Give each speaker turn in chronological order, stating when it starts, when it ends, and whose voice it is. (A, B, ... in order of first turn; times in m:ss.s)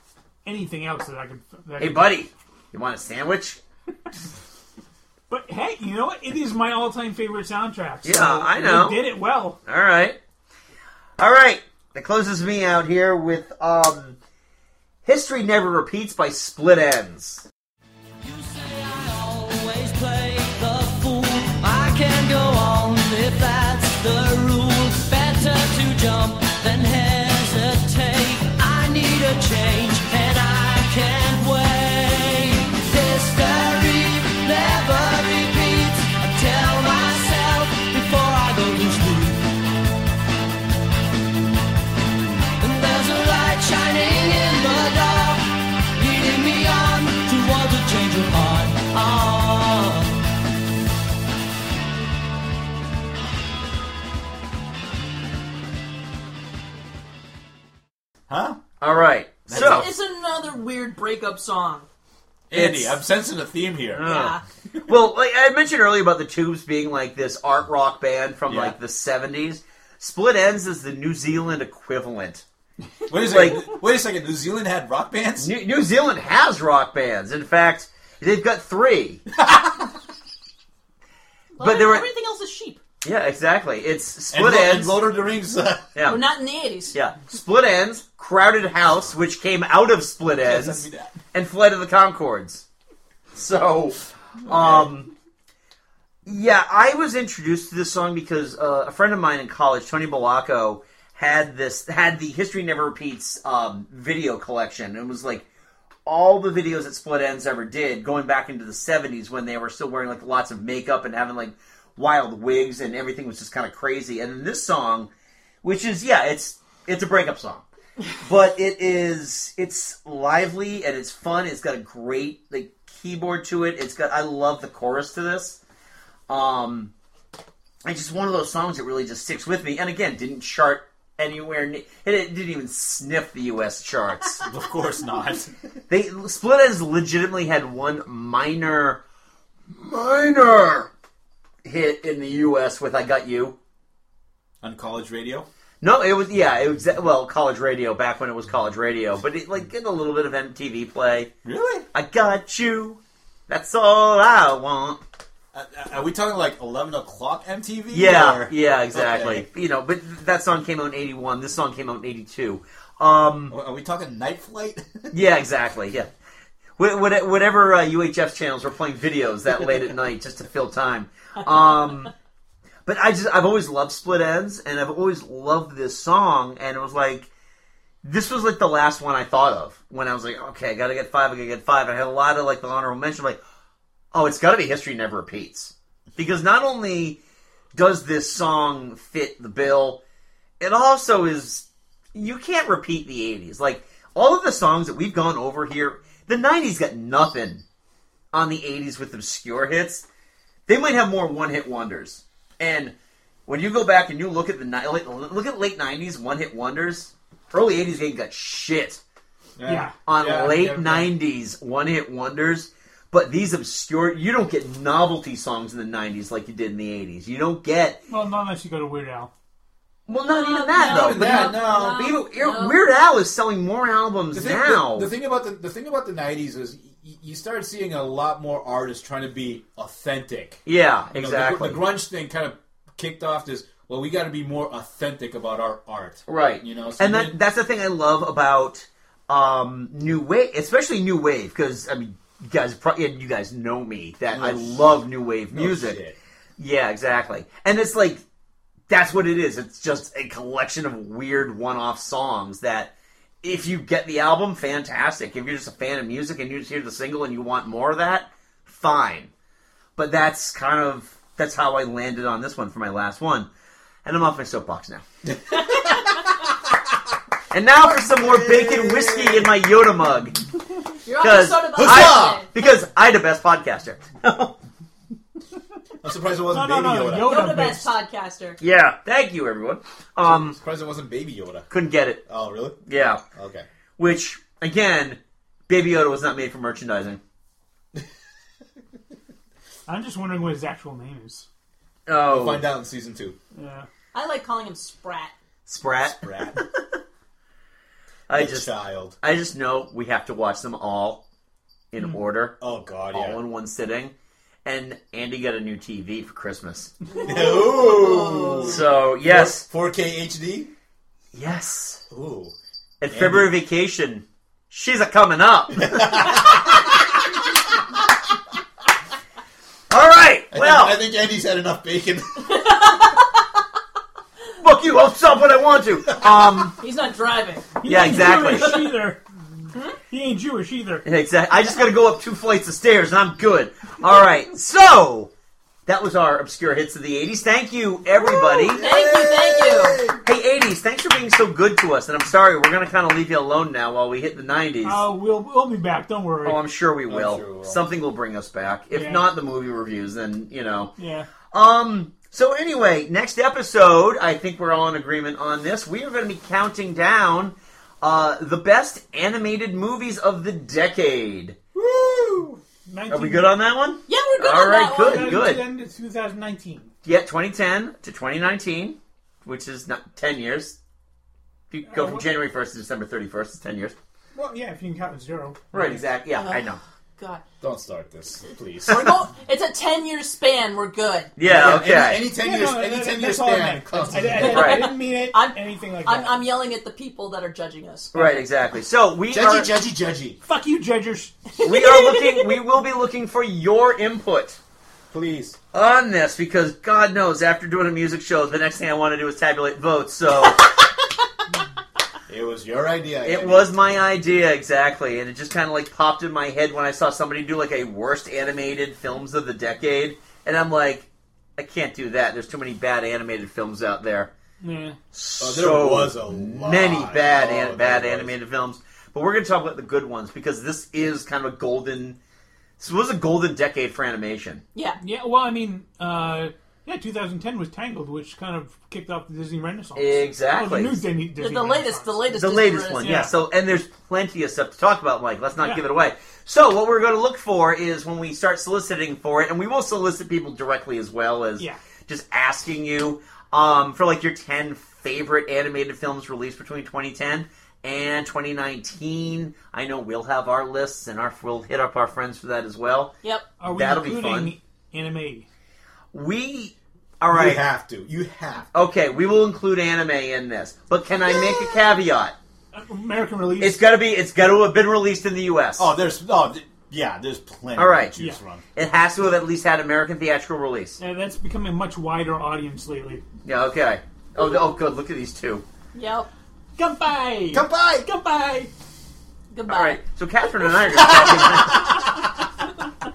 0:00.4-0:02.1 A
0:01.8-0:03.6 B
0:05.3-0:09.6 A
0:08.0-0:09.0 B
0:09.6-0:10.2 B
0:11.2-0:14.2 B
0:15.0-0:17.4 B
0:18.2-0:39.5 C
0:42.6-0:50.2 C
0:58.3-0:58.6 D
0:58.8-0:59.9 B
0:59.4-0:59.9 D
0:59.5-1:01.9 E
1:02.5-1:04.2 D
1:02.5-1:03.0 E
1:04.0-1:04.4 E
1:04.1-1:04.3 B
1:04.8-1:12.4 B
1:08.5-1:08.8 D
1:13.1-1:15.5 D
1:13.1-1:13.7 B
1:15.4-1:19.2 B
1:19.4-1:19.8 D
1:21.6-1:22.8 E
1:21.6-1:22.0 B
1:23.0-1:25.0 B
1:24.3-1:25.9 D
1:25.9-1:26.2 B
1:26.0-1:26.9 E
1:26.9-1:32.6 B
1:30.4-1:31.2 D
1:33.3-1:35.1 B
1:34.4-1:34.9 D
1:36.2-1:45.4 B
1:46.0-1:55.1 B
1:55.6-1:57.6 B
1:58.2-2:05.6 B
2:06.3-2:06.9 B
2:07.8-2:14.4 B
2:14.3-2:15.5 D
2:15.9-2:19.0 B
2:19.7-2:20.9 B
2:21.6-2:23.5 B
2:24.6-2:25.4 D
2:25.8-2:31.3 B
2:31.4-2:31.8 D
2:31.9-2:35.0 B
2:35.5-2:39.5 D
2:37.9-2:43.5 B
2:43.5-2:45.1 D
2:45.1-2:46.1 B
2:46.8-2:52.1 B
2:52.8-2:57.3 B
2:58.0-3:03.4 B
3:04.1-3:07.2 B
3:07.7-3:10.0 B
3:10.6-3:17.6 B
3:18.3-3:20.0 B
3:20.7-3:22.9 B
3:23.5-3:29.0 B
3:29.6-3:31.1 D
3:29.7-3:29.9 A
3:30.1-3:38.0 B
3:38.1-3:39.3 A
3:40.1-3:45.1 B
3:40.2-3:42.8 E
3:40.8-3:41.9 D
3:44.3-3:57.3 D
3:50.6-3:51.8 B
3:56.3-4:06.0 B
4:04.3-4:06.2 D
4:06.6-4:08.2 B
4:08.9-4:12.9 B
4:13.4-4:19.3 B
4:20.0-4:23.5 B
4:24.0-4:25.0 B
4:27.5-4:30.4 B
4:28.1-4:29.5 D
4:31.0-4:32.5 E
4:31.2-4:34.5 B
4:31.8-4:32.4 D
4:36.0-4:37.4 D
4:36.5-4:37.9 A
4:37.2-4:38.6 E
4:38.6-4:40.6 B
4:40.2-4:41.7 D
4:41.7-4:42.2 B
4:42.2-4:42.8 D
4:42.8-4:43.2 B
4:43.3-4:43.7 D
4:44.0-4:47.2 B
4:49.9-4:51.4 A
4:52.1-4:52.7 B
4:52.3-4:53.4 D
4:53.5-4:53.9 A
4:54.1-4:55.3 E
4:55.6-4:56.6 B
4:56.0-4:56.6 D
4:58.3-5:01.2 B
4:58.3-4:59.1 D
5:01.9-5:02.6 B
5:02.6-5:03.4 D
5:03.1-5:04.1 B
5:04.6-5:06.9 B
5:07.2-5:10.7 D
5:07.3-5:08.8 E
5:08.5-5:09.6 B
5:11.3-5:12.0 B
5:12.1-5:12.6 D
5:13.0-5:16.5 B
5:13.1-5:13.5 D
5:15.7-5:16.9 D
5:19.9-5:21.0 B
5:20.5-5:22.7 D
5:22.6-5:23.1 E
5:24.6-5:26.7 B
5:26.3-5:26.7 D
5:26.8-5:28.8 E
5:27.8-5:29.2 A
5:27.8-5:28.8 B
5:30.1-5:31.0 A
5:31.0-5:35.3 B
5:35.8-5:38.8 B
5:38.1-5:40.2 D
5:38.7-5:40.0 E
5:40.2-5:45.0 B
5:44.8-5:46.6 A
5:46.4-5:50.9 B
5:47.1-5:47.9 D
5:48.9-5:49.2 A
5:51.0-5:51.3 A
5:51.5-6:01.6 B
6:01.8-6:03.6 A
6:03.1-6:05.6 B
6:04.1-6:05.3 E
6:05.0-6:06.9 A
6:07.0-6:10.8 B
6:11.7-6:13.9 B
6:11.9-6:12.2 A
6:14.3-6:16.0 A
6:15.7-6:16.8 B
6:16.3-6:16.6 E
6:17.2-6:17.4 E
6:17.6-6:19.3 D
6:18.8-6:21.3 E
6:21.4-6:22.2 B
6:21.4-6:24.8 D
6:22.2-6:26.4 A
6:24.4-6:24.9 B
6:24.5-6:28.3 E
6:28.1-6:29.7 B
6:29.3-6:30.4 D
6:30.4-6:31.6 A
6:31.6-6:32.5 E
6:31.6-6:34.6 B
6:35.1-6:35.6 D
6:35.7-6:40.7 B
6:42.3-6:43.9 D
6:43.2-6:54.3 B
6:54.6-6:55.0 A
6:55.1-7:02.2 B
6:55.4-6:58.3 D
7:02.8-7:04.6 B
7:05.0-7:12.3 A
7:10.0-7:11.0 B
7:11.4-7:13.2 E
7:12.3-7:33.1 B
7:13.0-7:13.3 A
7:15.6-7:15.8 A
7:33.6-7:35.5 A
7:33.6-7:34.5 B
7:36.1-7:37.6 B
7:37.3-7:38.7 D
7:38.7-7:42.3 B
7:42.7-7:43.8 A
7:43.6-7:45.9 B
7:45.8-7:48.6 D
7:47.8-7:48.2 B
7:48.7-7:51.0 B
7:51.0-7:53.2 A
7:53.4-7:55.6 B
7:55.9-7:56.3 E
7:56.8-7:58.7 A
7:57.5-7:58.1 D
7:59.5-8:00.0 E
7:59.7-8:02.1 B
8:00.9-8:02.0 D